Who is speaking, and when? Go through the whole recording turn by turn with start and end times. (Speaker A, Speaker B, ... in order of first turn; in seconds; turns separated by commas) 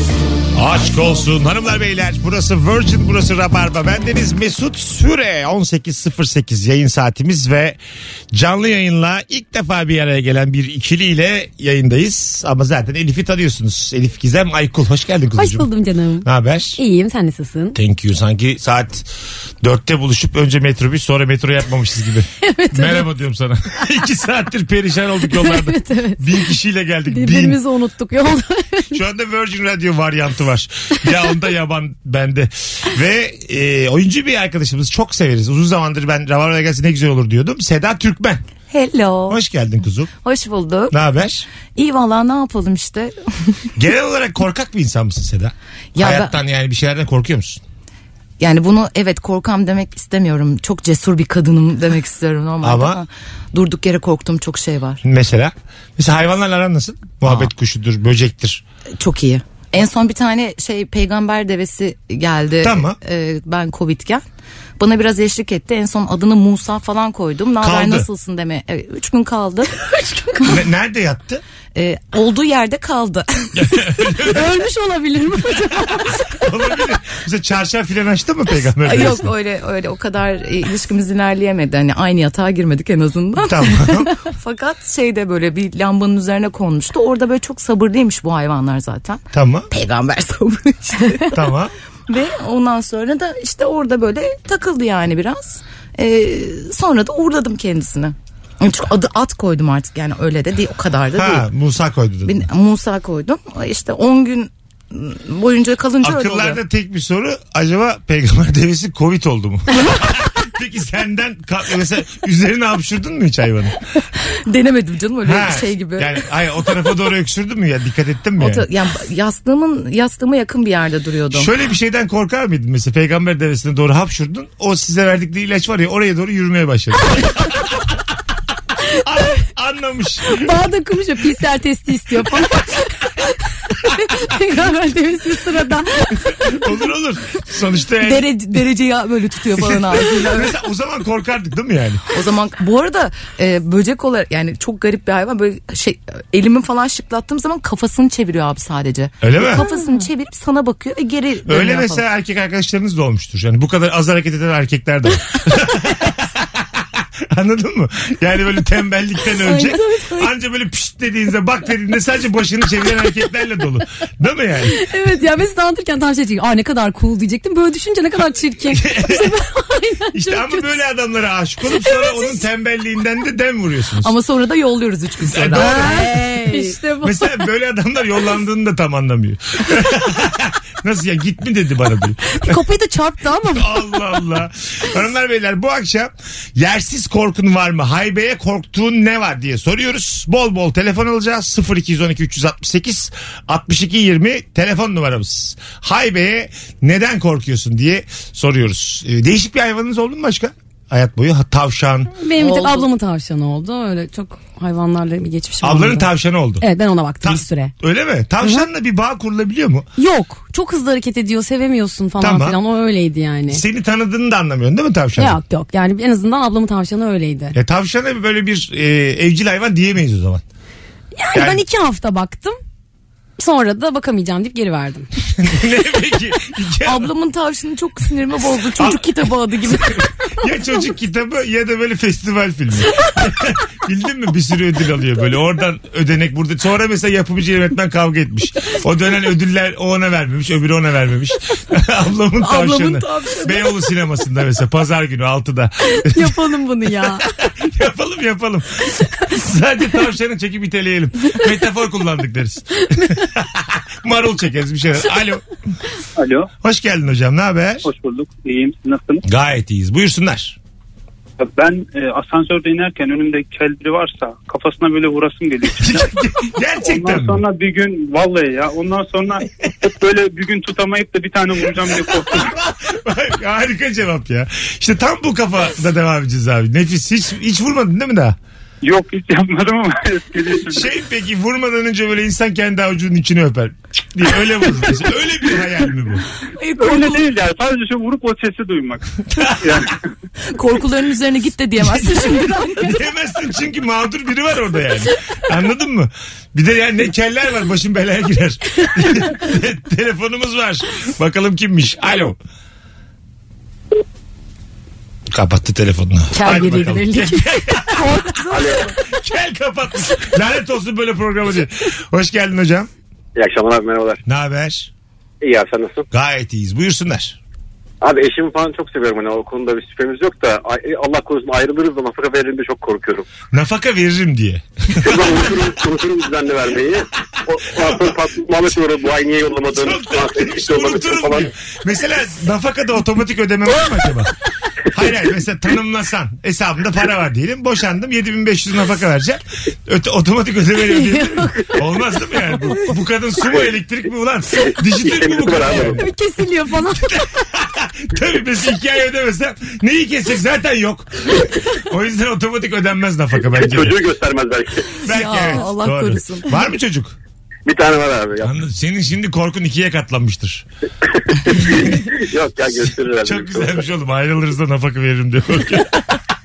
Speaker A: 0.5-7.8, Speaker A: 8.3-15.7, Speaker B: 15.4-17.8, Speaker A: 16.2-16.8, Speaker A: 17.7-19.1, Speaker A: 19.6-27.6, Speaker B: 22.4-23.1, Speaker B: 25.3-26.2, Speaker B: 27.1-29.0, Speaker A: 28.9-38.4, Speaker C: 38.7-39.4, Speaker A: 39.3-40.1, Speaker C: 40.2-43.7, Speaker A: 40.9-41.4, Speaker A: 43.8-47.6, Speaker C: 45.9-46.3, Speaker C: 48.4-55.0, Speaker A: 52.6-53.0, Speaker A: 55.0-58.6, Speaker C: 57.2-57.5, Speaker C: 59.0-64.2, Speaker A: 62.6-63.0, Speaker C: 64.8-69.7, Speaker A: 67.6-68.1, Speaker A: 70.4-71.4, Speaker C: 71.7-73.8, Speaker A: 73.5-74.5, Speaker B: 74.2-76.4, Speaker A: 76.2-79.3, Speaker C: 78.8-91.3, Speaker A: 83.4-84.1, Speaker A: 89.3-89.7, Speaker A: 91.3-91.7, Speaker C: 92.1-101.5, Speaker A: 101.1-102.4, Speaker C: 102.2-106.6, Speaker A: 106.0-113.8, Speaker C: 114.3-116.2, Speaker A: 115.2-118.7, Speaker C: 118.4-121.5, Speaker A: 121.3-127.8, Speaker A: 129.0-130.5, Speaker B: 130.3-136.4, Speaker A: 136.2-138.2, Speaker C: 138.0-140.5, Speaker A: 139.6-142.0, Speaker C: 142.1-152.1, Speaker A: 149.2-149.6, Speaker B: 149.6-150.0, Speaker A: 151.4-164.8, Speaker C: 159.3-160.3, Speaker B: 164.7-170.8, Speaker A: 168.7-169.3, Speaker A: 170.1-174.1, Speaker B: 171.8-172.4, Speaker C: 174.0-176.7, Speaker A: 175.3-176.0, Speaker B: 175.6-177.3, Speaker A: 177.0-182.6, Speaker B: 182.3-183.9, Speaker A: 183.5-202.1, Speaker B: 202.2-206.1, Speaker C: 202.4-202.8, Speaker A: 205.6-206.6, Speaker B: 206.6-207.7, Speaker A: 207.2-209.9, Speaker B: 208.4-208.7, Speaker B: 210.0-213.6, Speaker A: 212.2-212.6, Speaker A: 213.5-215.4, Speaker B: 215.2-217.5, Speaker A: 217.5-220.4, Speaker B: 221.1-222.6, Speaker A: 221.3-221.6, Speaker B: 223.4-225.1, Speaker A: 225.3-227.1, Speaker C: 226.8-230.1, Speaker A: 228.8-229.0, Speaker A: 229.7-246.4, Speaker C: 242.4-243.8, Speaker B: 245.8-247.2, Speaker A: 247.0-255.4, Speaker D: 256.2-256.5, Speaker A: 256.6-257.9, Speaker D: 257.8-259.2, Speaker A: 259.2-260.6, Speaker D: 261.4-266.1, Speaker A: 265.8-267.4, Speaker D: 266.8-272.5, Speaker A: 272.1-278.4, Speaker D: 278.8-280.9, Speaker A: 280.6-286.2, Speaker C: 286.6-287.2, Speaker D: 286.8-289.0, Speaker A: 289.4-289.7, Speaker D: 289.6-289.9, Speaker C: 290.5-293.0, Speaker A: 292.8-302.4, Speaker A: 305.3-308.2, Speaker B: 306.3-307.4, Speaker C: 308.0-308.3, Speaker E: 308.5-308.9, Speaker A: 308.9-312.9, Speaker E: 313.3-314.2, Speaker A: 314.2-314.9, Speaker E: 315.4-316.1, Speaker A: 316.1-317.4, Speaker E: 318.0-323.2, Speaker A: 323.5-325.7, Speaker E: 325.0-331.5, Speaker A: 327.7-328.2, Speaker A: 329.7-334.3, Speaker A: 334.9-346.0, Speaker B: 340.9-341.8, Speaker E: 343.4-343.7, Speaker E: 345.0-346.0, Speaker B: 345.8-347.4, Speaker A: 346.9-354.0, Speaker E: 353.5-354.9, Speaker A: 355.0-357.1, Speaker C: 355.0-356.5, Speaker E: 357.6-358.5, Speaker A: 358.4-360.6, Speaker E: 361.4-363.9, Speaker A: 363.2-366.2